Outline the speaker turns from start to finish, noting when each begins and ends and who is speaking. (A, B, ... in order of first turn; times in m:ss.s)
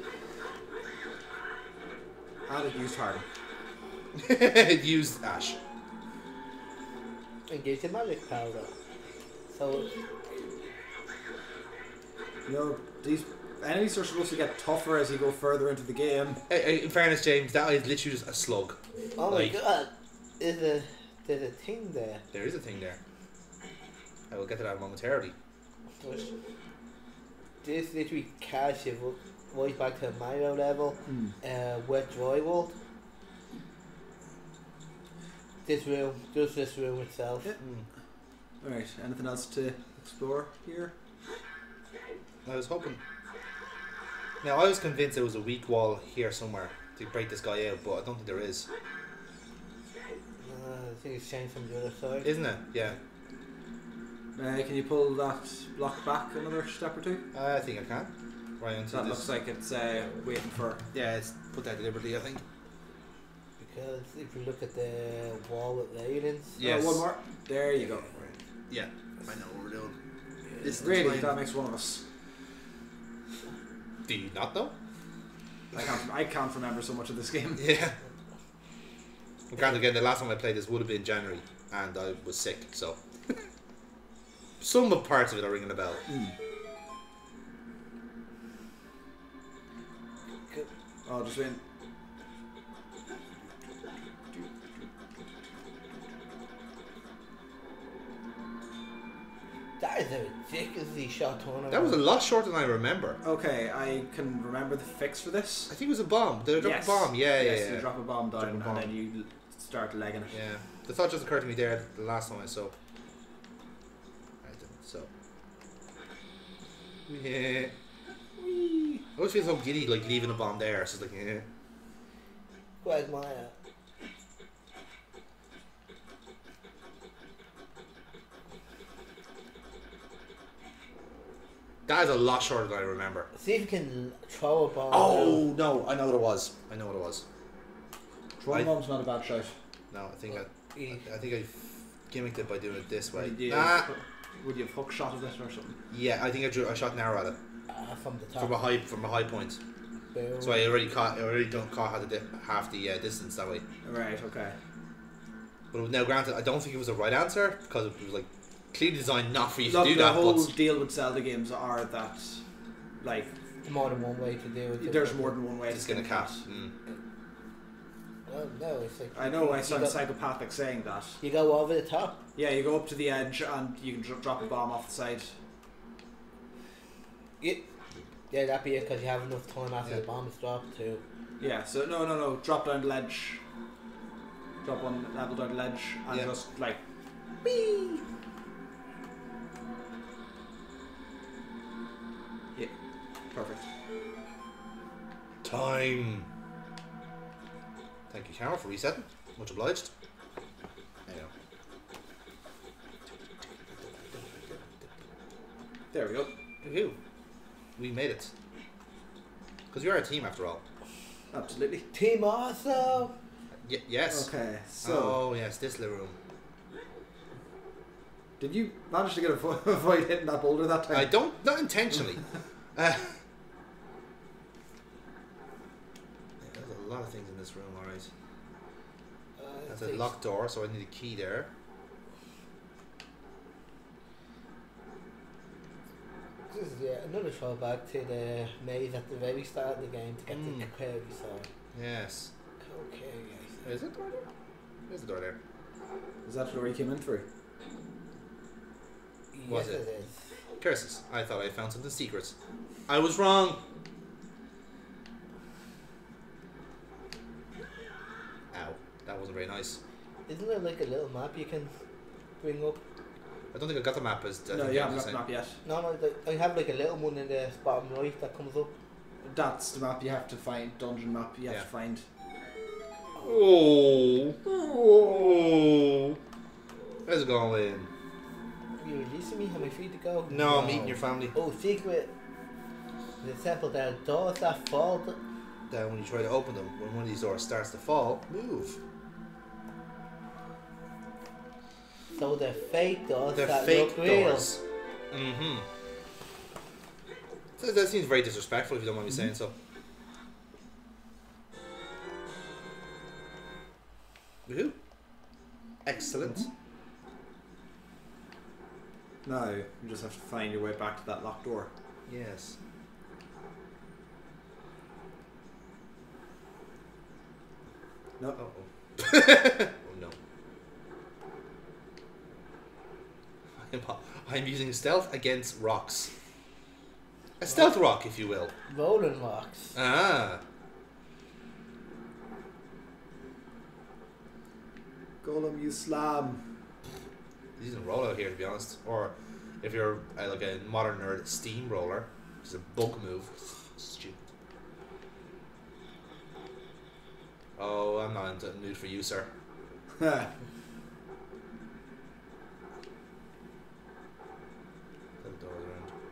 0:02.5-0:03.2 A
0:04.2-0:05.6 B
0:07.5-0:08.7 C
0:09.5-0:09.9 C
0:12.5-0:16.4 A
0:16.5-0:18.8 B
0:19.2-0:22.2 C
0:19.3-0:19.6 B
0:22.3-0:23.0 B
0:24.3-0:25.4 B
0:26.0-0:26.3 C
0:27.6-0:32.8 C
0:31.1-0:31.4 A
0:35.6-0:37.5 C
0:37.6-0:37.9 B
0:38.6-0:40.9 A
0:42.4-0:43.0 B
0:44.4-0:48.7 B
0:50.4-0:52.3 C
0:52.2-0:53.0 B
0:54.4-0:57.2 A
0:57.3-0:59.3 B
0:58.9-1:00.8 A
1:00.9-1:02.4 B
1:03.6-1:06.6 C
1:06.6-1:07.1 B
1:06.6-1:08.1 A
1:07.8-1:10.0 B
1:10.6-1:11.4 B
1:10.8-1:12.0 A
1:14.1-1:14.8 B
1:15.7-1:17.7 A
1:17.6-1:18.0 B
1:19.5-1:23.4 B
1:24.6-1:26.0 B
1:26.1-1:26.4 A
1:31.1-1:31.6 A
1:34.3-1:34.9 A
1:39.8-1:42.0 C
1:41.7-1:43.2 B
1:43.2-1:45.7 A
1:45.7-1:48.9 B
1:46.6-1:50.4 A
1:50.3-1:52.8 B
1:54.4-1:55.1 B
1:57.1-1:57.7 B
1:58.4-2:01.5 B
2:02.8-2:03.5 C
2:11.9-2:13.3 B
2:13.4-2:15.5 C
2:14.9-2:17.2 B
2:18.4-2:19.5 A
2:19.9-2:23.9 B
2:20.7-2:21.0 C
2:23.1-2:25.8 A
2:25.9-2:27.4 B
2:27.7-2:28.7 C
2:28.4-2:29.6 B
2:30.1-2:30.6 C
2:30.4-2:33.6 B
2:33.8-2:34.6 A
2:35.7-2:40.5 B
2:39.6-2:42.4 A
2:43.0-2:43.3 A
2:43.6-2:45.4 C
2:44.8-2:46.4 A
2:45.7-2:46.8 B
2:48.3-2:50.0 C
2:49.1-2:51.2 A
2:51.2-2:52.2 C
2:52.4-2:55.3 A
2:57.4-2:57.6 C
2:58.3-3:01.0 C
3:01.4-3:03.4 A
3:04.6-3:06.8 A
3:07.4-3:08.0 B
3:13.3-3:13.6 A
3:15.4-3:16.3 B
3:18.1-3:19.9 B
3:23.7-3:24.9 B
3:25.9-3:26.3 A
3:26.6-3:27.0 B
3:27.8-3:28.3 B
3:29.7-3:30.6 B
3:31.3-3:31.9 A
3:31.9-3:33.1 C
3:33.6-3:34.3 B
3:34.1-3:35.2 A
3:34.8-3:36.2 B
3:38.4-3:41.2 A
3:40.9-3:42.2 B
3:42.8-3:43.2 B
3:46.4-3:48.1 B
3:49.4-3:50.1 C
3:49.7-3:51.5 B
3:56.5-4:01.5 C
4:00.3-4:00.7 B
4:01.7-4:02.3 B
4:02.6-4:03.6 C
4:03.6-4:04.2 B
4:04.9-4:05.4 B
4:06.2-4:07.2 A
4:09.3-4:10.2 C
4:09.5-4:09.8 B
4:10.6-4:12.3 B
4:12.9-4:13.6 B
4:18.5-4:19.8 B
4:20.3-4:21.7 C
4:22.4-4:22.8 C
4:23.5-4:25.2 B
4:24.5-4:25.6 A
4:25.6-4:28.8 C
4:29.2-4:32.0 A
4:33.2-4:36.2 B
4:37.1-4:37.9 B
4:38.8-4:42.1 C
4:40.3-4:41.4 B
4:43.2-4:45.2 C
4:45.7-4:48.8 B
4:52.1-4:54.5 C
4:53.4-4:54.6 B
4:55.1-4:55.7 B
4:57.6-4:59.5 B
5:04.5-5:04.8 B
5:05.8-5:06.5 B
5:09.2-5:11.7 A
5:12.1-5:12.6 B
5:18.4-5:20.2 B
5:23.6-5:26.1 B
5:27.4-5:28.5 B
5:28.7-5:29.7 C
5:29.8-5:30.4 B
5:35.2-5:36.4 A
5:37.6-5:44.2 B
5:47.6-5:49.3 B
5:50.0-5:50.3 A
5:55.2-5:55.9 B